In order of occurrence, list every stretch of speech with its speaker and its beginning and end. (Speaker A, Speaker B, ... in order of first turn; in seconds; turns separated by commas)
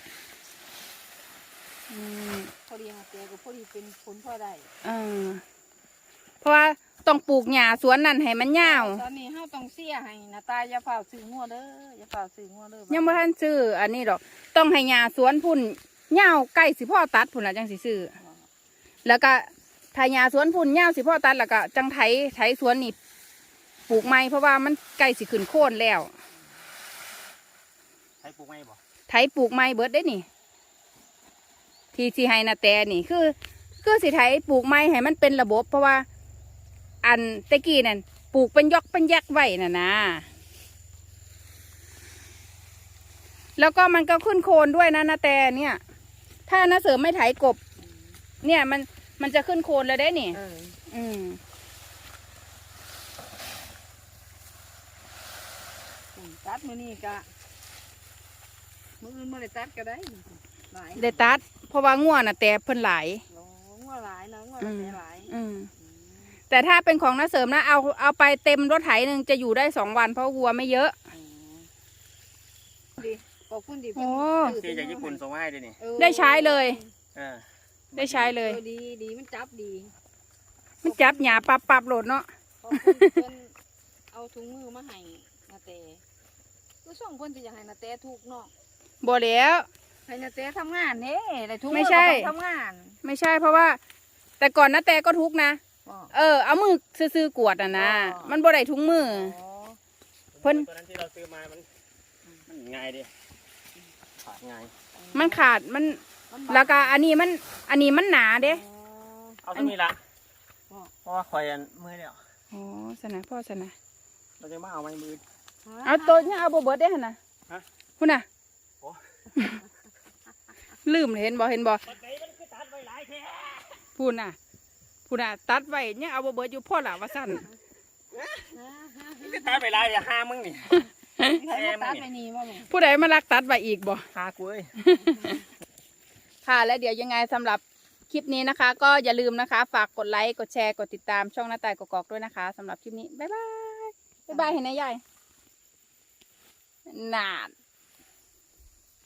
Speaker A: 1.9-2.5, Speaker B: 2.6-4.7, Speaker A: 4.8-5.4, Speaker A: 6.4-9.0, Speaker B: 8.6-13.2, Speaker A: 12.9-18.1, Speaker A: 19.0-22.9, Speaker A: 23.9-26.1, Speaker C: 28.2-28.8, Speaker A: 29.1-30.2, Speaker A: 31.9-36.0, Speaker A: 37.0-40.2, Speaker A: 43.6-45.8, Speaker A: 46.5-47.6, Speaker B: 47.8-48.2, Speaker A: 48.4-50.4, Speaker B: 50.3-50.8, Speaker A: 50.9-51.4, Speaker B: 56.1-57.3, Speaker B: 59.0-61.4, Speaker A: 60.9-63.2, Speaker B: 63.3-66.2, Speaker A: 64.6-65.7, Speaker A: 66.5-70.9, Speaker B: 71.1-71.7, Speaker B: 73.0-75.2, Speaker A: 74.0-74.6, Speaker C: 74.5-75.8, Speaker B: 75.8-76.9, Speaker A: 76.0-76.8, Speaker C: 77.1-78.3, Speaker A: 78.0-78.6, Speaker B: 78.4-79.9, Speaker A: 80.8-82.2, Speaker B: 80.8-81.5, Speaker B: 82.6-83.5, Speaker A: 82.8-83.2, Speaker B: 84.1-86.0, Speaker B: 86.8-88.5, Speaker A: 89.0-89.7, Speaker B: 90.0-93.0, Speaker A: 91.7-92.3, Speaker A: 93.0-93.8, Speaker A: 94.4-95.6, Speaker B: 95.8-96.1, Speaker A: 96.1-99.3, Speaker B: 97.7-98.4, Speaker B: 99.1-99.8, Speaker C: 100.3-101.7, Speaker A: 100.4-100.7, Speaker C: 102.5-103.1, Speaker C: 104.2-104.7, Speaker B: 105.0-105.5, Speaker A: 105.1-108.6, Speaker B: 106.3-107.0, Speaker B: 108.4-109.4, Speaker C: 109.4-110.0, Speaker C: 111.0-112.2, Speaker A: 112.5-113.7, Speaker C: 114.4-115.2, Speaker B: 115.6-116.4, Speaker A: 115.8-117.2, Speaker A: 118.0-118.2, Speaker A: 120.8-121.8, Speaker C: 121.9-123.8, Speaker A: 124.0-124.3, Speaker A: 125.1-127.5, Speaker B: 128.5-129.6, Speaker C: 129.2-130.8, Speaker B: 131.2-132.7, Speaker C: 131.5-132.1, Speaker A: 132.7-134.1, Speaker C: 134.1-134.7, Speaker A: 134.8-135.3, Speaker A: 136.4-145.0, Speaker B: 144.3-144.6, Speaker A: 146.9-147.5